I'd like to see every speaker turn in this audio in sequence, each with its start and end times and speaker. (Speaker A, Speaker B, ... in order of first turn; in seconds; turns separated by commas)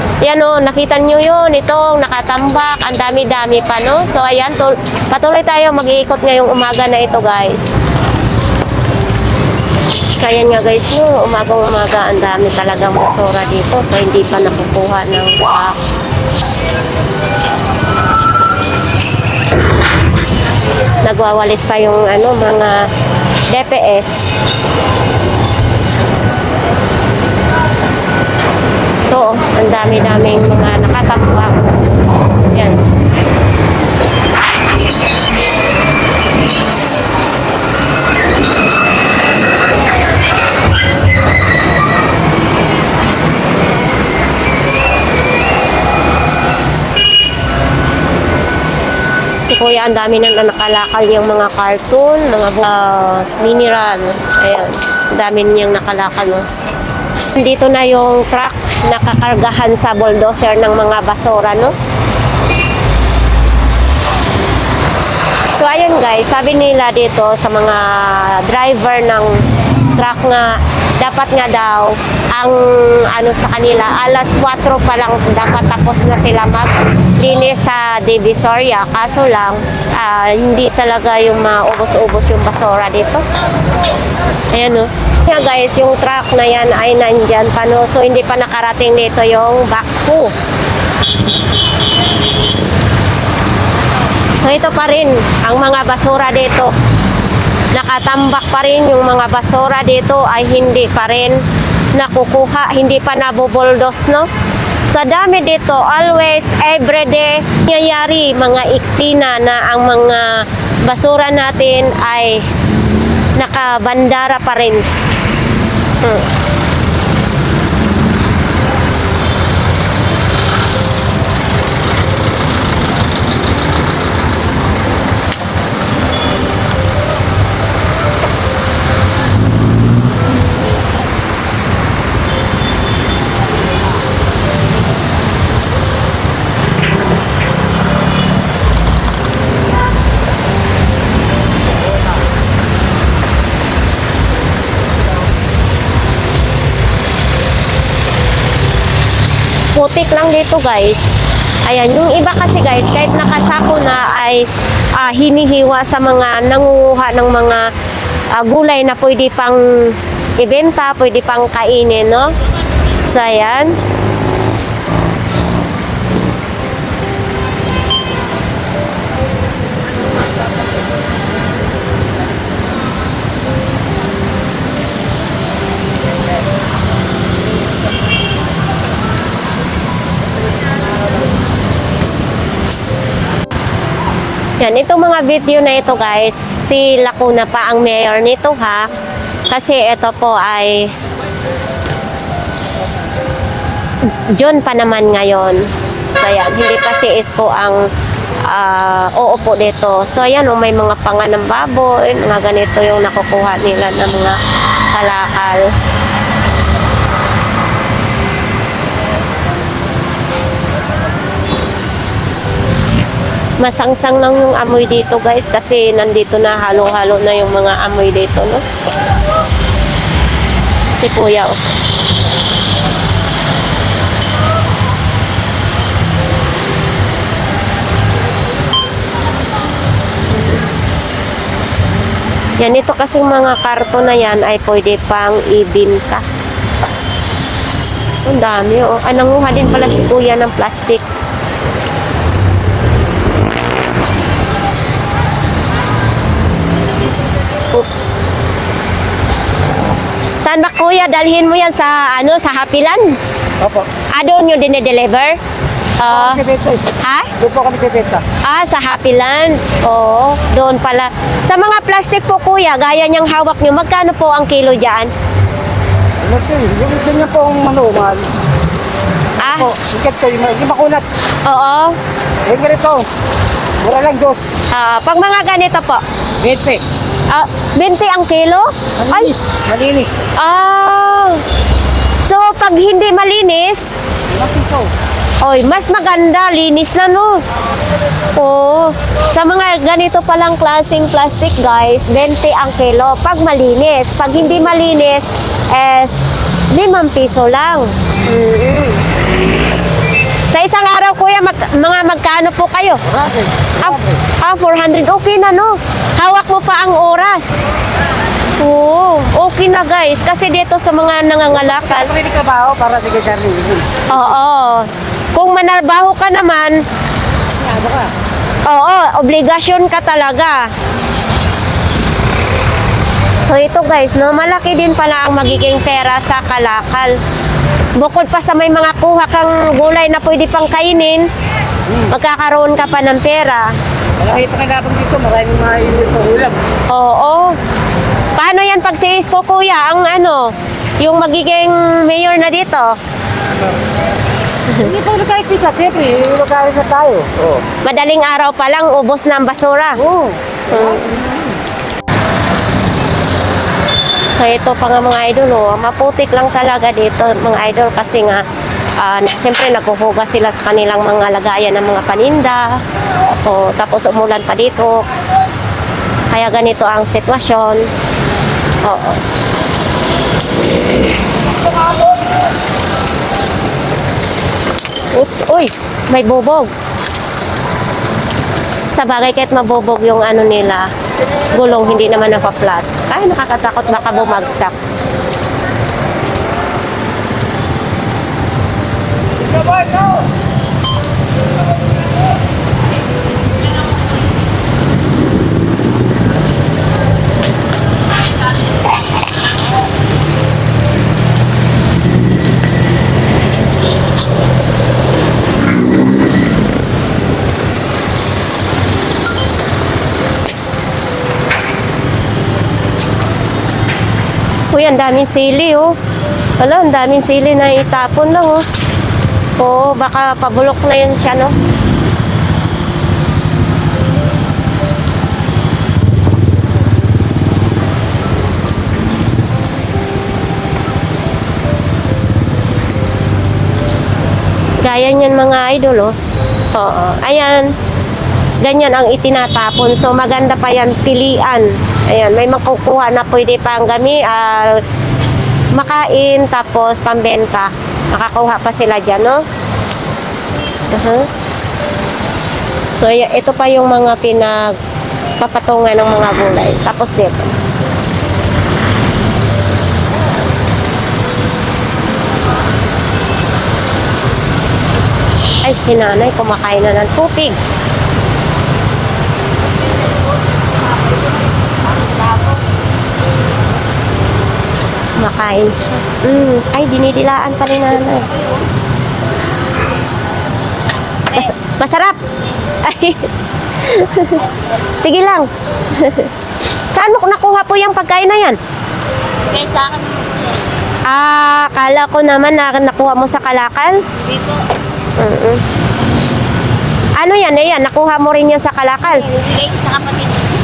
Speaker A: 0.2-7.7, Speaker A: 10.1-15.8, Speaker A: 21.0-22.8, Speaker A: 23.5-24.4, Speaker A: 29.1-31.6, Speaker A: 32.5-32.8, Speaker A: 49.5-56.5, Speaker A: 57.3-61.7, Speaker A: 65.5-69.4, Speaker A: 69.9-83.2, Speaker A: 84.5-90.3, Speaker A: 94.4-96.7, Speaker A: 97.7-101.4, Speaker A: 101.9-104.3, Speaker A: 104.9-112.5, Speaker A: 113.3-114.9, Speaker A: 116.0-116.3, Speaker A: 149.7-151.0, Speaker A: 151.6-154.4, Speaker A: 154.9-157.7, Speaker A: 158.3-162.3, Speaker A: 163.0-163.8, Speaker A: 184.6-188.9, Speaker A: 189.5-190.9, Speaker A: 194.1-197.9, Speaker A: 198.4-204.4, Speaker A: 204.9-205.7, Speaker A: 213.6-218.6, Speaker A: 220.9-221.6, Speaker A: 232.6-236.2, Speaker A: 238.2-241.0, Speaker A: 247.7-248.1, Speaker A: 250.4-253.2, Speaker B: 253.6-253.9, Speaker A: 254.1-255.4, Speaker A: 256.0-256.4, Speaker B: 256.1-256.9, Speaker A: 257.0-257.3, Speaker B: 257.4-258.2, Speaker A: 258.4-265.1, Speaker B: 266.2-268.3, Speaker A: 269.4-269.7, Speaker B: 269.4-271.0, Speaker A: 271.4-271.9, Speaker B: 272.4-273.1, Speaker B: 273.8-274.5, Speaker A: 274.7-276.0, Speaker B: 276.4-276.8, Speaker A: 277.3-279.3, Speaker B: 279.0-280.1, Speaker A: 280.4-281.4, Speaker A: 282.2-283.9, Speaker B: 284.3-284.9, Speaker A: 285.4-287.4, Speaker A: 288.3-299.0, Speaker A: 300.5-303.0, Speaker B: 303.1-304.2, Speaker A: 303.8-307.5, Speaker A: 308.6-312.1, Speaker B: 311.6-314.1, Speaker A: 314.1-316.8, Speaker B: 317.6-318.1, Speaker A: 318.6-320.7, Speaker A: 323.4-327.1, Speaker A: 328.0-331.2, Speaker A: 332.0-333.7, Speaker B: 334.2-336.6, Speaker A: 336.9-337.6, Speaker A: 338.3-342.9, Speaker B: 344.8-347.6, Speaker A: 347.8-350.0, Speaker B: 350.0-351.6, Speaker A: 350.7-351.2, Speaker A: 354.4-358.4, Speaker A: 359.0-365.0, Speaker A: 366.3-367.9, Speaker A: 368.8-369.2, Speaker A: 375.1-376.7, Speaker A: 378.9-380.9, Speaker A: 381.5-384.7, Speaker A: 414.7-415.9, Speaker A: 416.6-418.6, Speaker A: 419.6-421.5, Speaker A: 434.8-436.1, Speaker A: 436.7-437.7, Speaker A: 438.6-444.8, Speaker A: 445.7-449.4, Speaker A: 450.9-451.3, Speaker A: 452.9-454.7, Speaker A: 455.4-457.5, Speaker A: 465.6-467.6, Speaker C: 472.1-472.6, Speaker A: 475.2-478.3, Speaker A: 481.3-482.2, Speaker A: 482.8-486.3, Speaker A: 486.9-488.6, Speaker C: 489.5-490.6, Speaker A: 491.1-494.0, Speaker C: 494.2-494.6, Speaker A: 495.2-495.6, Speaker A: 497.2-499.2, Speaker C: 499.2-500.4